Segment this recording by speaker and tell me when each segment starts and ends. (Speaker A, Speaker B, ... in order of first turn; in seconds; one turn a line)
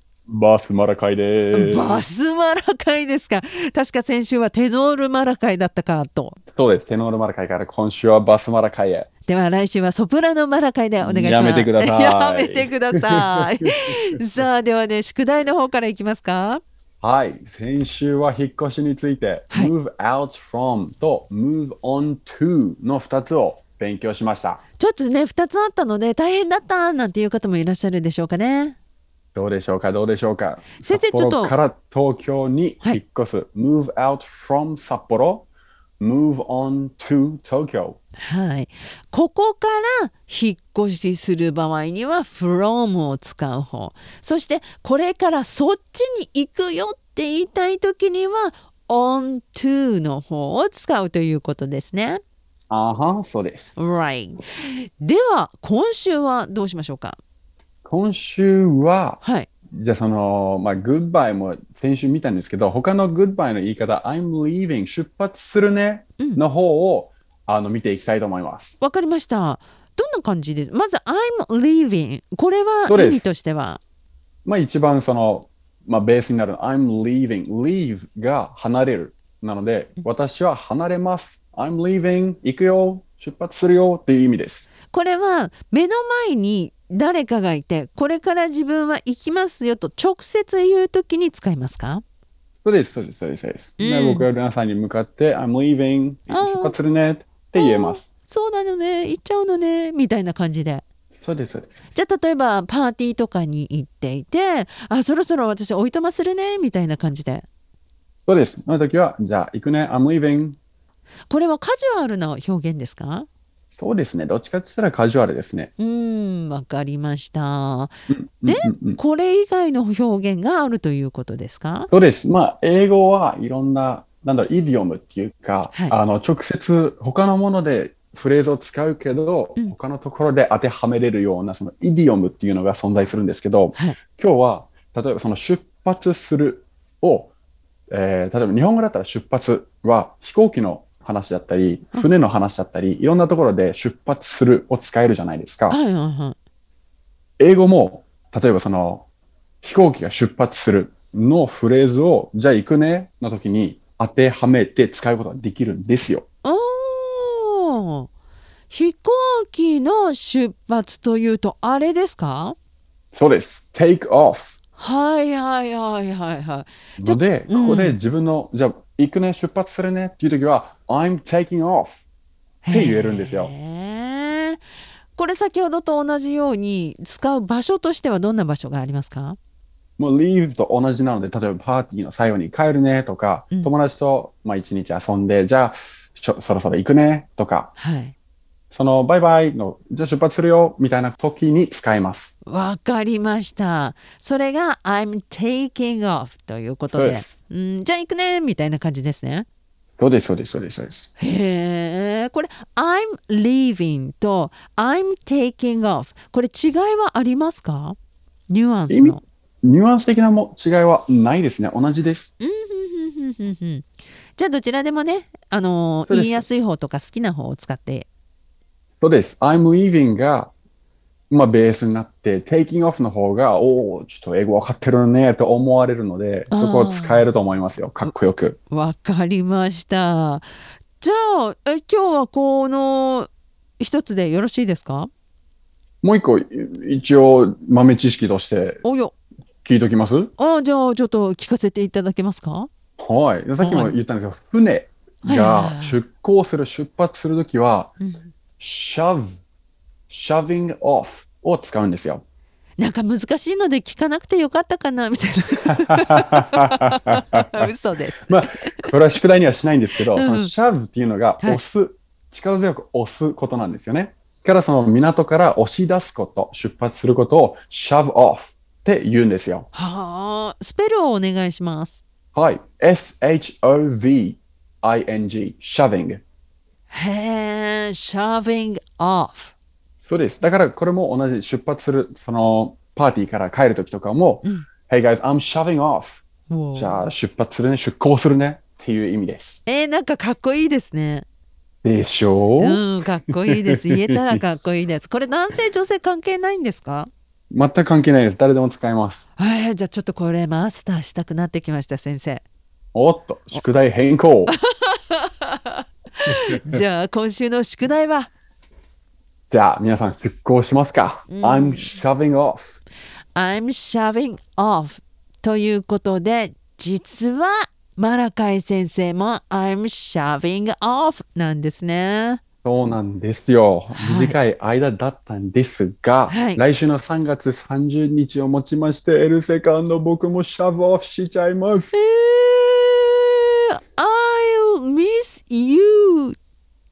Speaker A: 0.3-2.0
Speaker B: 1.5-6.4
Speaker A: 6.5-9.1
Speaker B: 9.3-16.6
Speaker A: 11.0-13.9
Speaker A: 17.0-24.6
Speaker B: 24.8-28.8
Speaker A: 29.3-35.5
Speaker B: 30.8-31.5
Speaker A: 36.0-38.0
Speaker B: 38.2-52.2
Speaker A: 52.7-53.8
Speaker B: 53.8-57.2
Speaker A: 57.8-68.8
Speaker B: 59.2-59.5
Speaker B: 68.8-73.8
Speaker A: 72.8-73.3
Speaker A: 74.4-84.7
Speaker B: 84.9-92.0
Speaker A: 92.6-98.0
Speaker B: 93.8-94.3
Speaker B: 96.3-96.7
Speaker B: 97.5-100.8
Speaker A: 101.2-101.9
Speaker B: 101.9-107.5
Speaker A: 108.3-110.6
Speaker B: 111.3-113.3
Speaker A: 113.7-115.7
Speaker B: 115.8-117.9
Speaker A: 118.1-119.0
Speaker B: 118.5-121.9
Speaker A: 121.9-137.3
Speaker A: 137.9-145.8
Speaker B: 145.7-146.4
Speaker A: 147.4-149.0
Speaker A: 149.6-156.2
Speaker B: 156.4-158.1
Speaker B: 158.7-162.6
Speaker A: 163.1-164.6
Speaker B: 164.8-168.0
Speaker A: 167.0-172.0
Speaker B: 172.6-174.6
Speaker A: 172.7-173.5
Speaker B: 175.1-179.4
Speaker A: 180.0-187.7
Speaker B: 187.8-188.1
Speaker A: 188.7-192.3
Speaker B: 192.5-199.5
Speaker A: 196.9-197.3
Speaker A: 200.0-201.1
Speaker B: 201.2-208.0
Speaker B: 208.5-209.2
Speaker A: 208.9-212.3
Speaker B: 212.4-218.1
Speaker A: 216.1-216.5
Speaker A: 219.0-220.5
Speaker A: 221.3-228.6
Speaker B: 226.5-227.3
Speaker B: 228.7-230.4
Speaker B: 231.0-235.1
Speaker A: 236.0-238.8
Speaker B: 238.8-239.1
Speaker A: 239.6-240.3
Speaker B: 240.4-242.7
Speaker A: 243.0-247.9
Speaker B: 243.6-244.0
Speaker B: 245.2-246.0
Speaker B: 248.0-248.3
Speaker A: 248.6-249.4
Speaker A: 250.1-252.2
Speaker B: 252.8-258.9
Speaker A: 255.9-257.7
Speaker A: 258.3-269.7
Speaker B: 260.1-260.5
Speaker B: 269.7-272.0
Speaker A: 272.3-276.2
Speaker B: 276.9-279.5
Speaker A: 280.0-289.6
Speaker B: 286.5-287.1
Speaker B: 289.7-291.2
Speaker A: 291.8-292.8
Speaker B: 292.6-297.1
Speaker A: 293.4-294.4
Speaker A: 297.5-299.2
Speaker B: 299.4-302.4
Speaker A: 302.9-304.6
Speaker B: 304.5-308.3
Speaker A: 306.2-306.8
Speaker A: 309.5-312.6
Speaker B: 311.3-312.0
Speaker B: 313.3-322.4
Speaker A: 322.6-332.0
Speaker B: 323.9-324.4
Speaker B: 326.3-326.6
Speaker B: 331.9-336.4